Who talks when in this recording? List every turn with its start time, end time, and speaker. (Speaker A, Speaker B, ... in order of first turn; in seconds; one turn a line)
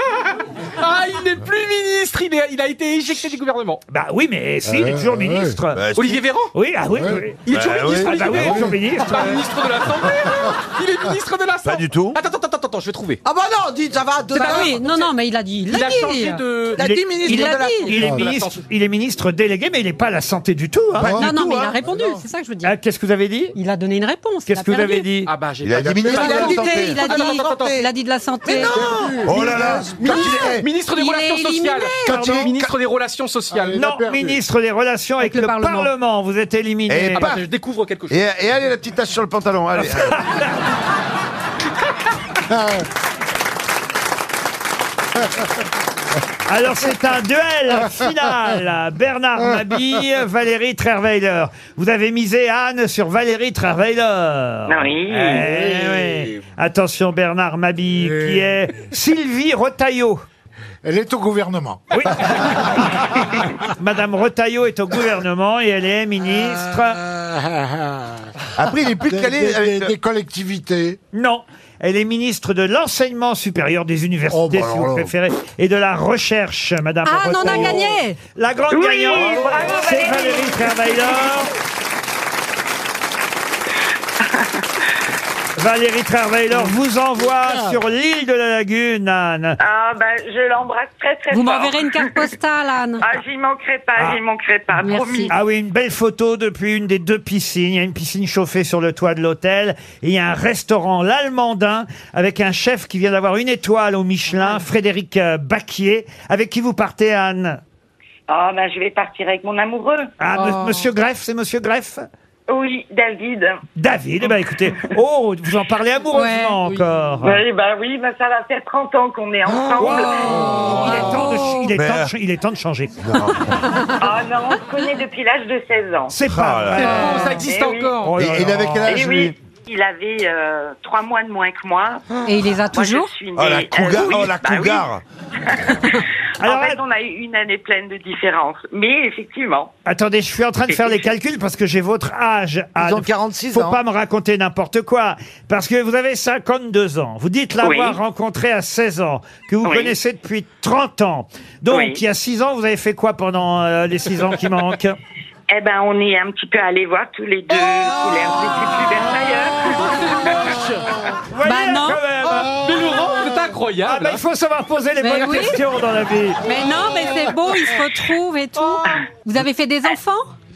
Speaker A: 0.8-3.8
Speaker B: 3.9-5.8
Speaker C: 4.7-5.6
Speaker D: 5.8-6.2
Speaker A: 6.0-6.5
Speaker B: 6.5-9.4
Speaker C: 7.0-7.2
Speaker A: 7.5-13.2
Speaker D: 7.5-8.2
Speaker C: 8.3-8.8
Speaker D: 11.7-12.2
Speaker E: 13.2-14.8
Speaker F: 14.3-16.4
Speaker A: 14.4-15.1
Speaker E: 15.7-17.9
Speaker A: 15.7-18.6
Speaker B: 17.3-21.3
Speaker F: 17.3-17.9
Speaker D: 21.0-22.2
Speaker F: 21.1-22.8
Speaker B: 22.6-23.6
Speaker F: 23.5-25.1
Speaker B: 24.5-25.3
Speaker A: 25.3-27.9
Speaker D: 25.6-27.1
Speaker F: 26.1-28.9
Speaker E: 27.0-27.8
Speaker E: 28.4-30.7
Speaker A: 28.8-33.8
Speaker D: 29.3-30.6
Speaker F: 30.1-32.3
Speaker B: 32.1-32.5
Speaker C: 33.5-34.4
Speaker B: 33.8-37.3
Speaker F: 35.2-35.9
Speaker D: 36.9-37.4
Speaker A: 37.1-38.2
Speaker D: 38.1-40.2
Speaker B: 39.8-40.5
Speaker B: 46.5-60.2
Speaker G: 54.7-55.4
Speaker C: 55.3-56.3
Speaker C: 58.1-58.5
Speaker C: 60.8-62.5
Speaker B: 61.9-67.0
Speaker C: 67.0-68.3
Speaker D: 68.6-70.0
Speaker C: 68.8-71.0
Speaker B: 71.1-81.5
Speaker C: 74.3-75.1
Speaker F: 77.0-78.2
Speaker G: 78.7-81.4
Speaker D: 79.1-79.7
Speaker B: 85.6-89.6
Speaker C: 87.3-87.8
Speaker G: 89.6-92.2
Speaker F: 91.3-93.0
Speaker G: 93.0-95.3
Speaker F: 94.8-95.3
Speaker B: 95.3-107.6
Speaker G: 108.3-110.1
Speaker B: 110.2-112.0
Speaker F: 110.3-110.9
Speaker G: 112.5-113.6
Speaker B: 113.8-117.4
Speaker F: 116.1-116.6
Speaker G: 117.2-121.2
Speaker B: 119.8-123.0
Speaker F: 119.9-121.7
Speaker D: 121.8-122.1
Speaker D: 123.0-123.5
Speaker G: 124.0-126.1
Speaker B: 126.1-127.4
Speaker D: 126.3-126.9
Speaker A: 126.7-128.2
Speaker G: 127.2-128.0
Speaker B: 128.0-129.0
Speaker D: 128.2-129.3
Speaker G: 128.9-132.1
Speaker F: 132.3-133.2
Speaker G: 132.7-134.9
Speaker D: 133.3-135.0
Speaker G: 135.5-139.7
Speaker B: 136.4-136.8
Speaker B: 139.9-155.0
Speaker G: 140.7-141.0
Speaker E: 142.8-143.8
Speaker G: 147.6-148.0
Speaker G: 149.7-150.0
Speaker G: 151.7-152.0
Speaker G: 155.5-160.0
Speaker A: 159.8-161.1
Speaker B: 161.3-162.6
Speaker F: 161.4-162.0
Speaker A: 162.2-164.2
Speaker B: 163.9-166.4
Speaker F: 165.0-165.6
Speaker F: 166.4-170.3
Speaker A: 168.6-169.1